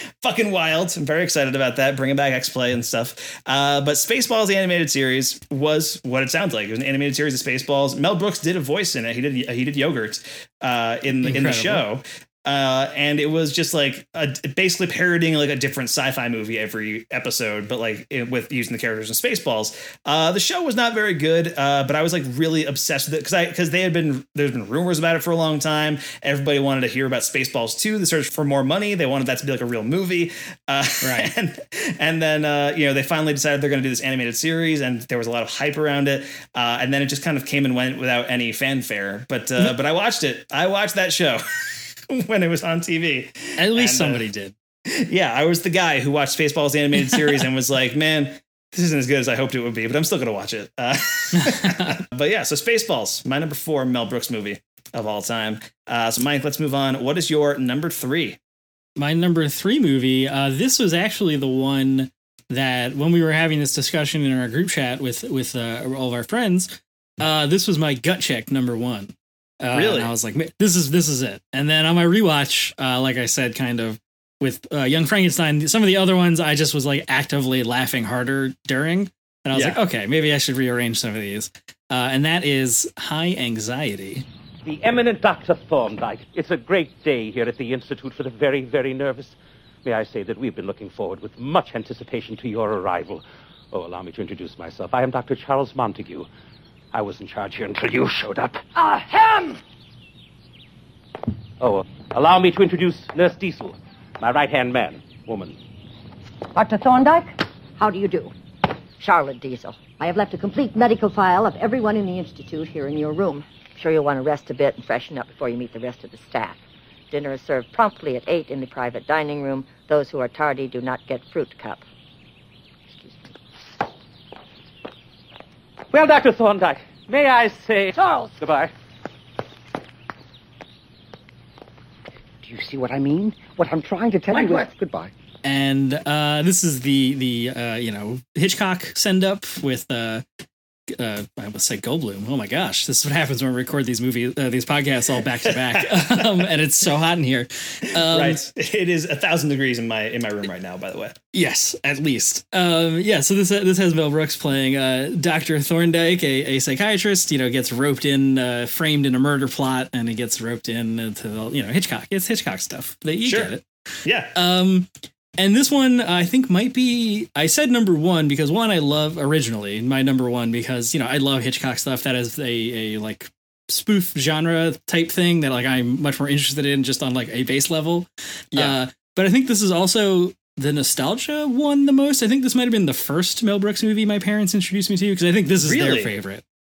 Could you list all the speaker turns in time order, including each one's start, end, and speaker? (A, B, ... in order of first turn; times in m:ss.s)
0:00.2-0:41.4 A
0:11.2-0:11.8 B
0:31.0-0:31.3 B
0:42.1-0:44.2 A
0:43.6-0:44.6 B
0:44.9-0:58.4 A
0:47.0-0:47.4 B
0:51.3-0:52.0 B
0:59.0-1:24.2 B
1:09.7-1:10.1 A
1:19.5-1:19.8 A
1:24.6-1:36.3 C
1:36.9-1:38.9 C
1:41.6-1:45.6 C
1:46.5-1:48.3 D
1:49.0-1:56.6 D
1:57.1-2:01.8 D
2:05.9-2:08.7 C
2:12.4-2:15.1 E
2:15.4-2:20.2 B
2:21.0-2:28.4 B
2:25.5-2:26.5 A
2:28.0-2:31.2 A
2:31.3-2:43.6 B
2:43.2-2:44.3 A
2:44.3-3:06.4 B
3:05.6-3:06.1 A